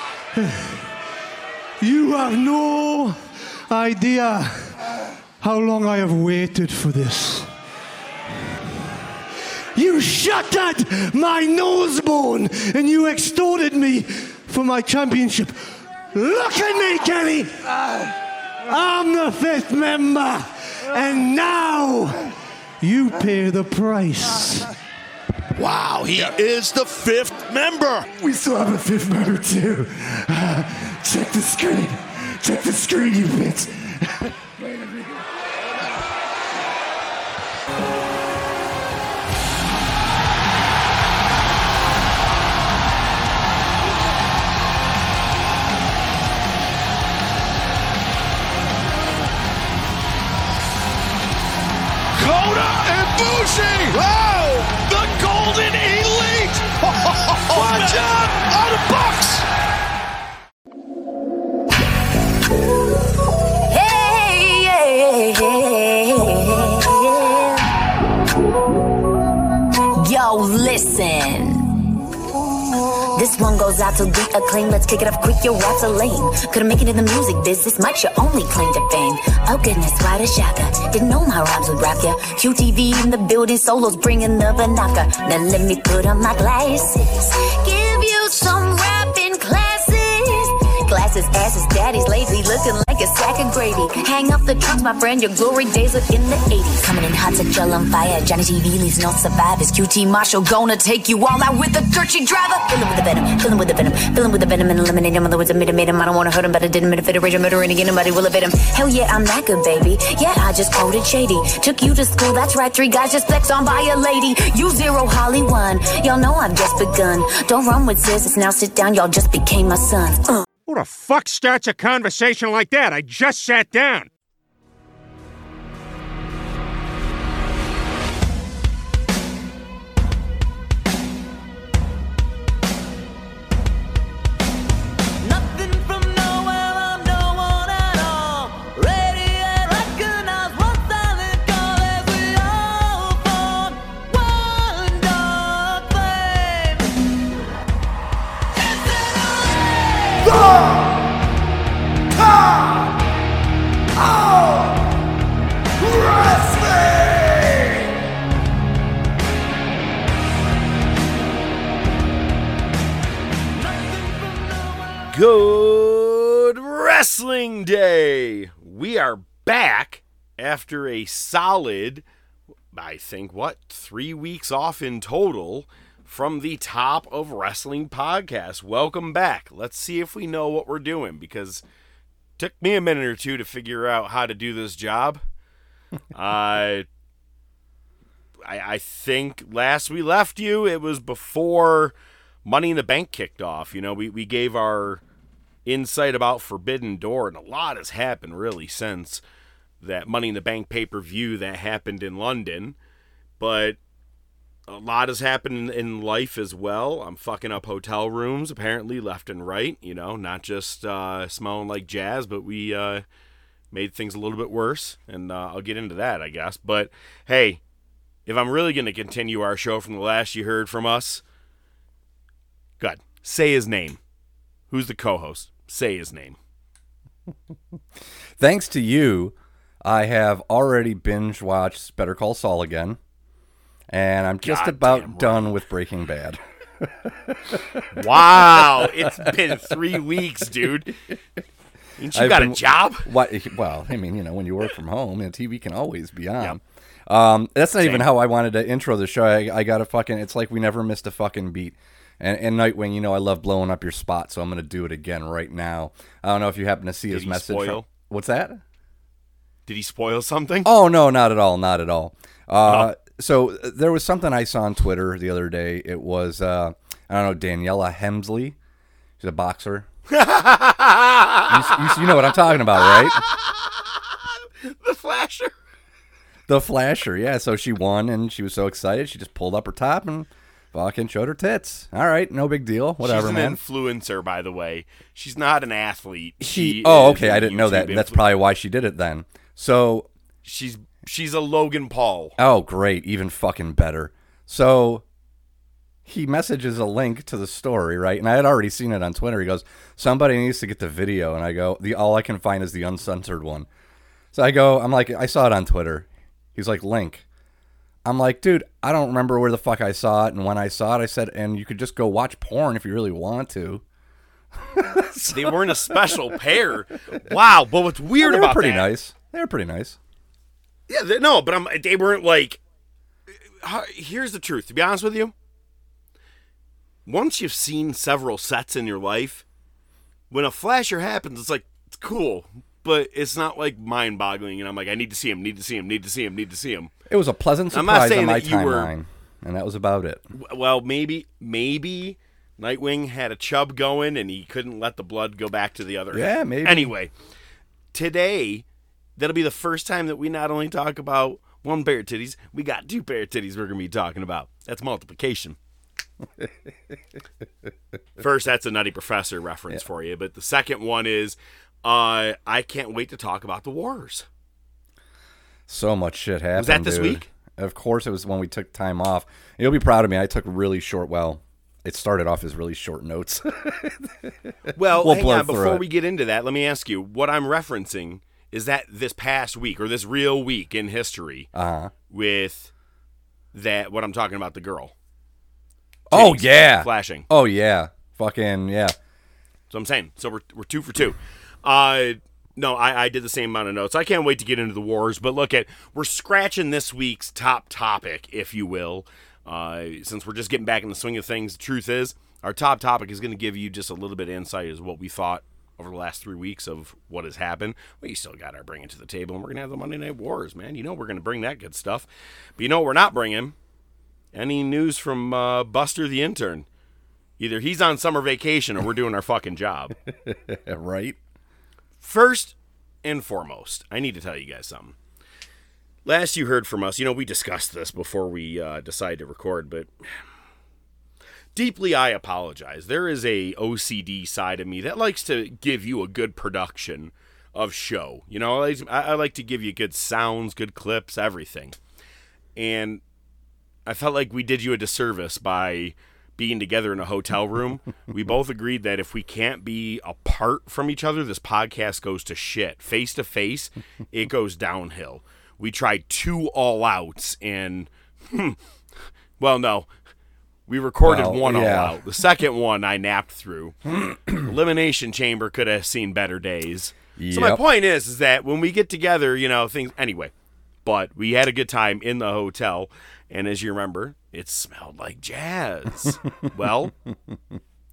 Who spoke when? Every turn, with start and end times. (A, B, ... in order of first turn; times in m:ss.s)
0:00.3-0:00.8 A
0:01.8-0:04.8 A
0:05.4-0:07.5 A
0:09.8-0:24.7 A
0:25.5-0:34.3 A
0:52.2-0:59.4 B
0:55.3-0:55.8 A
0:57.5-0:58.2 A
1:03.6-1:07.7 C
1:09.9-1:11.9 C
1:13.1-2:00.4 C
2:00.7-2:04.1 D
2:30.3-2:30.8 C
2:34.2-2:34.6 C
2:35.9-2:36.6 C
2:45.1-2:52.0 E
2:52.7-3:01.6 E
3:02.4-3:05.2 E
3:06.1-3:06.8 E
3:08.4-3:15.0 E
3:15.7-3:19.2 E
3:19.8-3:22.8 E
3:23.4-3:23.8 E
3:24.7-3:33.0 E
3:33.7-3:37.6 E
3:38.2-3:41.2 E
3:42.8-3:44.0 E
3:44.7-3:46.4 E
3:48.4-3:53.0 F
3:53.9-3:59.2 F
3:54.4-3:55.5 E
3:57.9-4:00.9 E
4:02.0-4:03.1 E
4:02.1-4:18.6 F
4:07.8-4:08.1 E
4:17.1-4:17.9 E
4:19.7-4:20.7 E
4:20.6-4:28.6 F
4:22.7-4:22.9 E
4:29.2-4:29.9 F
4:30.1-4:33.7 E
4:31.5-4:33.2 F
4:34.6-4:35.5 E
4:36.5-4:43.6 F
4:43.0-4:48.2 E
4:46.4-4:50.1 F
4:50.4-4:52.4 E
4:52.4-4:55.0 F
4:56.1-5:03.7 F
5:04.3-5:07.2 F
5:08.0-5:13.8 F
5:14.6-5:16.4 F
5:15.3-5:18.9 E
5:18.2-5:20.0 F
5:20.9-5:22.6 E
5:23.6-5:25.3 E
5:27.1-5:29.4 E
5:30.3-5:36.9 E
5:37.1-5:40.2 F
5:37.7-5:38.9 E
5:40.3-5:47.1 E
5:46.1-5:46.9 F
5:47.9-5:48.6 E
5:49.2-5:55.6 E
5:58.2-6:04.3 E
6:05.7-6:15.8 F
6:06.6-6:07.2 E
6:14.7-6:21.5 E
6:21.5-6:21.9 F
6:22.1-6:22.7 E
6:23.5-6:24.9 E
6:26.1-6:29.0 F
6:26.1-6:27.3 E
6:29.7-6:53.6 E
6:54.3-6:56.7 E
6:57.4-6:59.9 E
7:00.1-7:01.2 F
7:02.0-7:05.0 E
7:06.0-7:09.9 E
7:11.5-7:21.8 E
7:22.6-7:23.0 E
7:23.9-7:38.6 E
7:39.4-7:39.9 E
7:40.7-7:50.3 E
7:41.0-7:42.0 F
7:47.2-7:47.6 F
7:50.8-7:56.9 E